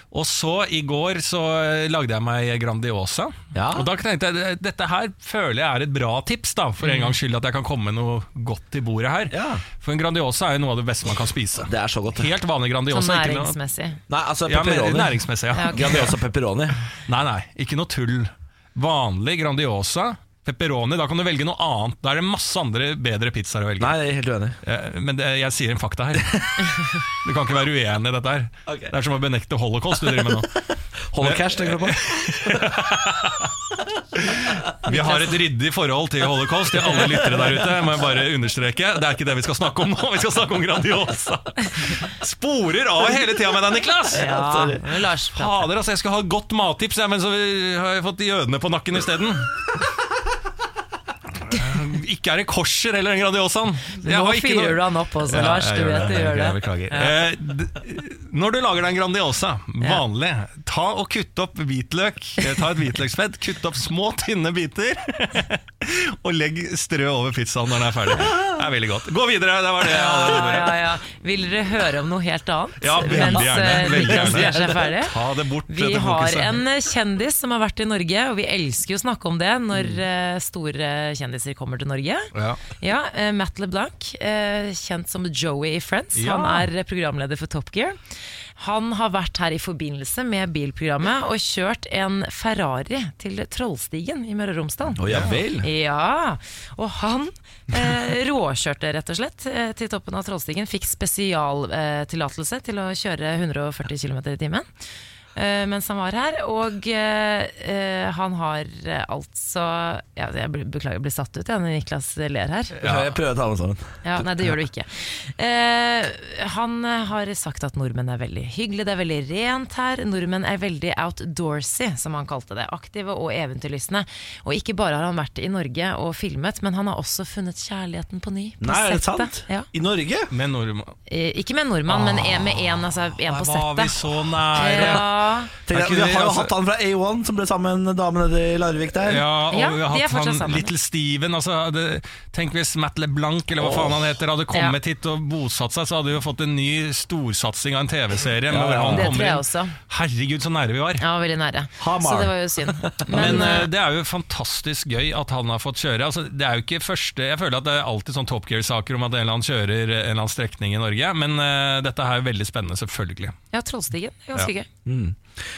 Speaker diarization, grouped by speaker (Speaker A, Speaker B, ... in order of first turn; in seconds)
Speaker A: 0.1-13.6, 14.5-16.1, 17.1-23.9, 24.6-30.6, 31.2-33.5, 34.2-44.3, 45.3-49.6, 51.4-70.9, 72.8-76.6, 82.3-82.6, 86.2-86.6, 95.1-95.4, 112.8-113.1, 130.3-130.9, 131.9-132.7, 133.2-135.1, 135.7-136.5, 139.0-151.0, 153.1-163.3
Speaker B: 3.5-3.9, 9.3-9.6, 11.6-12.3, 14.1-16.8, 23.8-24.6, 28.7-28.9, 30.1-30.4, 31.1-32.9, 36.9-37.8, 44.1-44.8, 68.2-68.5, 73.1-74.8, 95.0-95.7, 112.8-114.5, 128.6-130.3, 134.7-135.0, 135.7-139.2, 143.6-144.1, 148.5-149.2, 151.8-153.5, 164.8-165.2
Speaker C: 6.8-7.2, 12.9-14.0, 15.5-16.0, 34.9-35.4, 44.1-45.7, 54.0-57.1, 69.8-75.2, 75.7-88.0, 88.6-95.0, 95.6-104.7, 105.3-112.8, 114.0-129.7, 131.1-133.9, 134.5-135.5, 139.5-140.7, 148.9-149.7, 151.0-153.7, 163.5-164.7